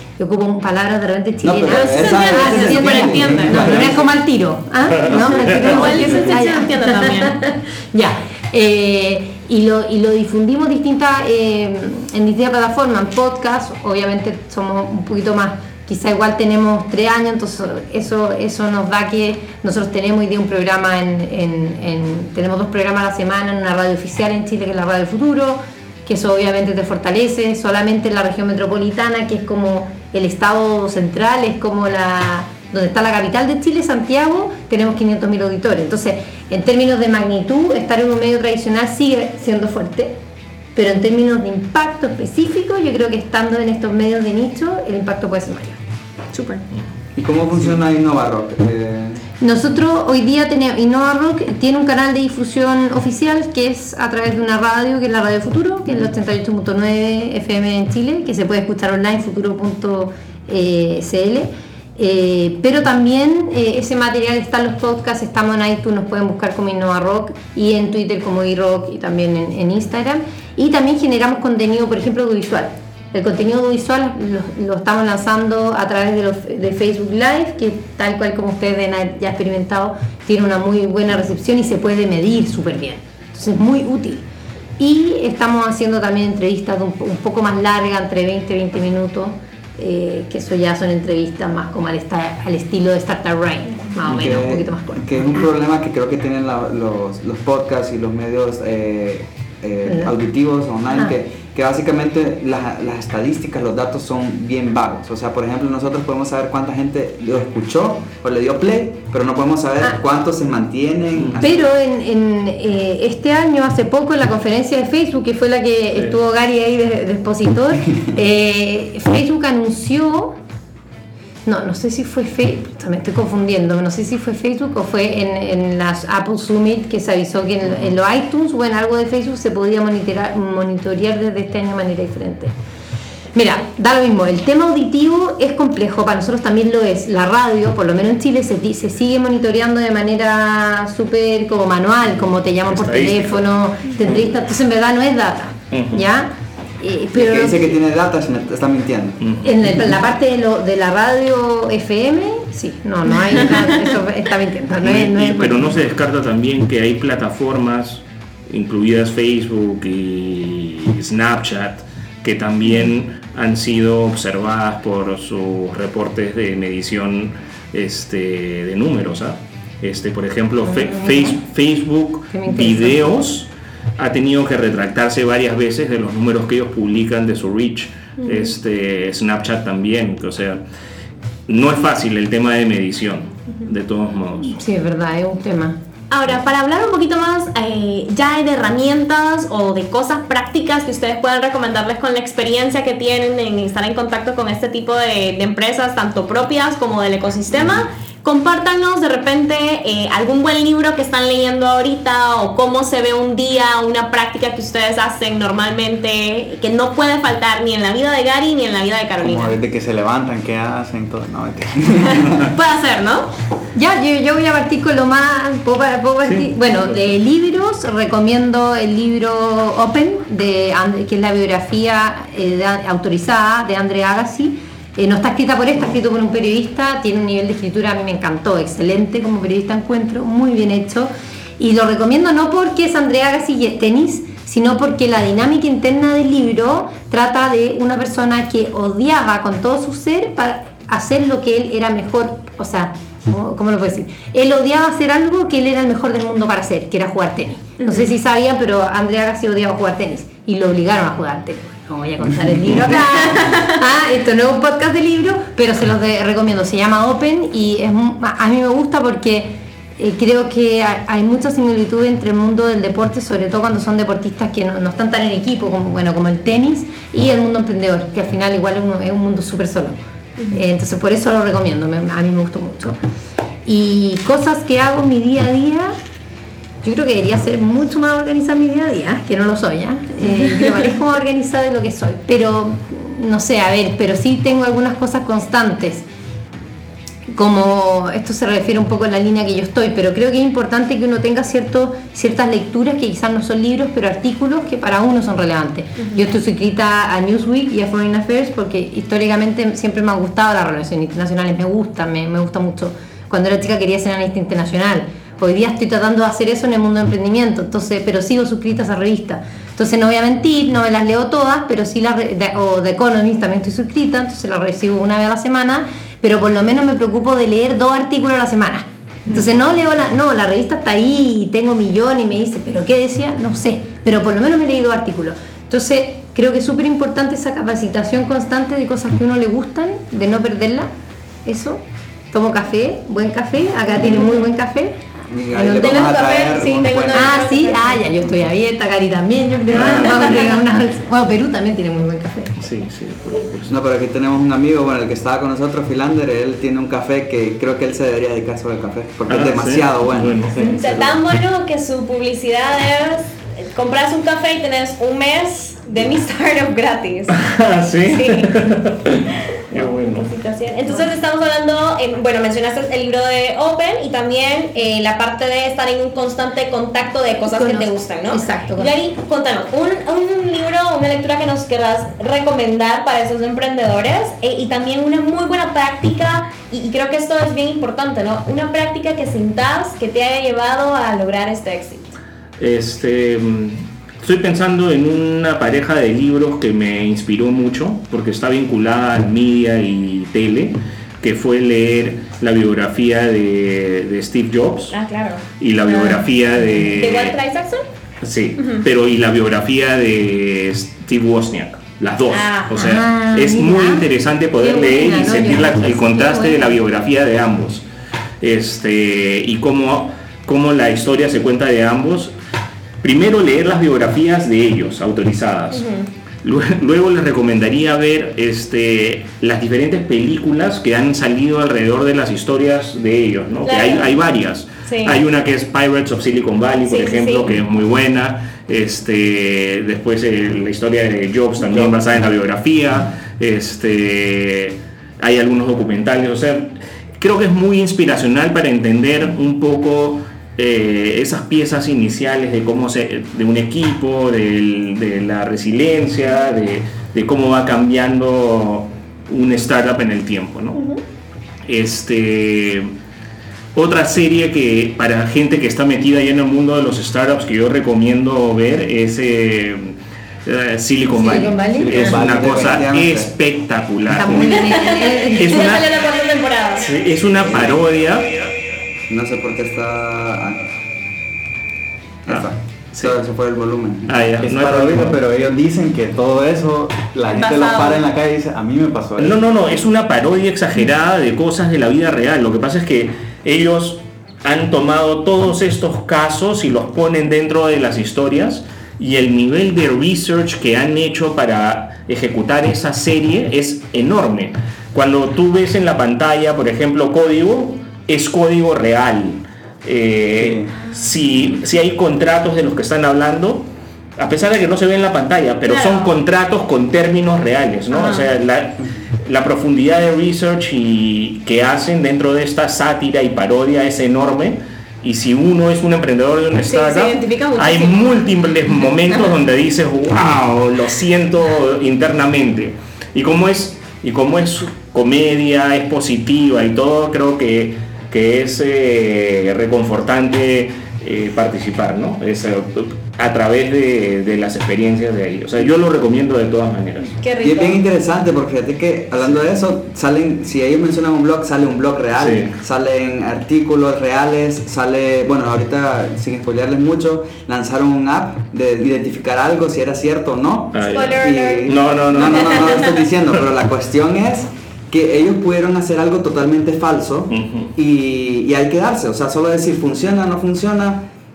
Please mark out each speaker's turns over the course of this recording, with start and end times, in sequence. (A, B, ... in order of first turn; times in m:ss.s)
0:00.2-0:40.2 A
0:01.4-0:04.0 B
0:01.7-0:04.0 C
0:05.0-0:05.8 D
0:05.3-0:07.4 C
0:05.8-0:06.2 B
0:40.8-0:45.8 A
0:46.3-0:46.6 C
0:47.1-0:49.2 B
0:49.4-1:24.2 A
1:24.8-1:35.2 A
1:34.1-1:51.6 B
1:39.9-1:40.1 A
1:51.2-1:51.5 D
1:51.4-2:00.4 A
2:01.4-2:12.5 A
2:13.3-2:27.8 A
2:22.7-2:23.4 D
2:25.7-2:26.0 D
2:27.1-2:29.2 B
2:29.2-2:29.6 D
2:29.4-2:35.8 A
2:34.8-3:00.6 D
2:50.6-2:51.4 A
2:52.3-2:53.1 A
3:01.5-3:04.5 D
3:04.4-3:05.8 A
3:06.1-3:29.6 C
3:29.2-3:32.5 E
3:32.1-3:33.3 C
3:33.7-4:30.0 A
4:07.8-4:08.1 C
4:13.2-4:13.7 C
4:30.5-4:33.0 A
4:33.6-4:36.0 A
4:36.8-4:46.0 A
4:47.3-5:30.9 A
5:31.4-5:31.8 A
5:32.3-5:35.0 A
5:35.3-5:37.4 B
5:35.5-5:35.9 A
5:35.6-5:38.0 C
5:37.1-5:42.6 A
5:39.7-5:40.6 D
5:42.6-5:43.8 D
5:43.7-5:51.2 B
5:49.3-5:50.7 D
5:50.6-5:57.4 C
5:57.3-6:00.3 D
5:58.1-5:58.5 C
5:59.7-6:22.0 C
6:07.5-6:08.9 A
6:22.6-6:35.0 D
6:34.9-6:36.2 C
6:35.6-6:37.4 D
6:36.8-6:37.8 C
6:38.2-6:47.8 D
6:42.3-6:42.9 C
6:42.7-6:46.8 A
6:48.4-6:52.3 D
6:53.0-6:55.8 D
6:55.7-6:56.1 C
6:56.4-7:30.8 D
7:03.6-7:04.1 C
7:04.9-7:05.2 C
7:06.9-7:07.6 C
7:31.7-7:32.9 D
7:33.7-7:44.7 D
7:41.1-7:42.1 A
7:41.8-7:42.8 E
7:41.9-7:43.3 B
7:44.1-7:45.7 A
7:44.3-7:46.9 C
7:45.3-7:45.9 D
7:46.8-7:48.3 D
7:49.1-7:50.7 B
7:52.2-7:54.2 B
7:52.3-7:53.2 D
7:54.1-7:55.2 D
7:54.4-7:59.4 E
7:57.3-7:58.1 C
7:59.2-8:23.7 D
8:20.4-8:20.7 E
8:24.2-8:57.2 D
8:25.6-8:26.1 C
8:27.9-8:28.3 C
8:36.7-8:38.2 C
8:57.2-8:57.8 C
8:57.4-9:21.0 B
9:02.2-9:02.5 D
9:10.7-9:12.9 D
9:10.9-9:12.9 C
9:17.3-9:17.7 D